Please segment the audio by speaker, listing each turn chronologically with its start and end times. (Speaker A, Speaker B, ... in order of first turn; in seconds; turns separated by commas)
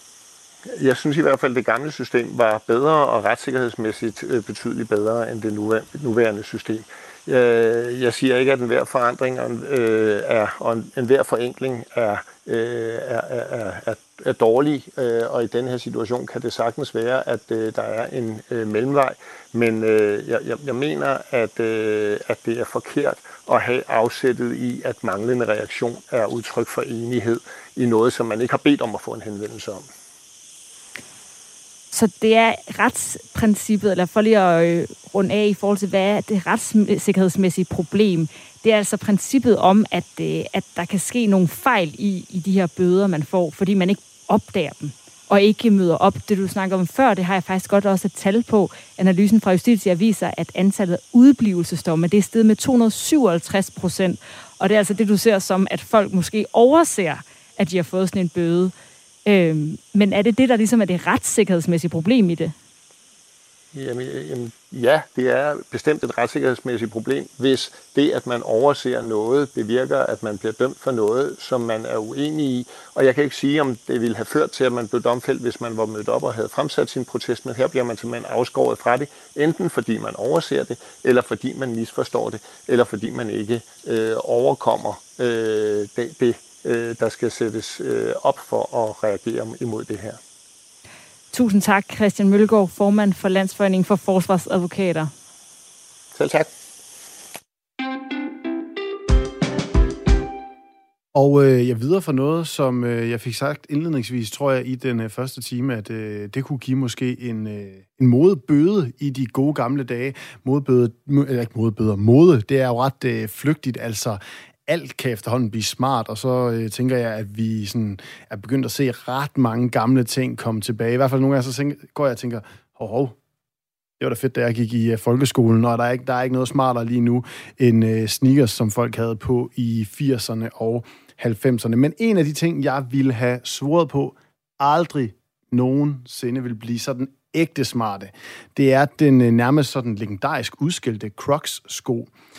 Speaker A: 0.7-29.9, Speaker B: 31.9-58.7, Speaker B: 59.2-62.5, Speaker A: 63.7-90.2, Speaker B: 91.3-95.1, Speaker A: 96.1-96.5, Speaker C: 101.1-123.1, Speaker C: 124.0-142.1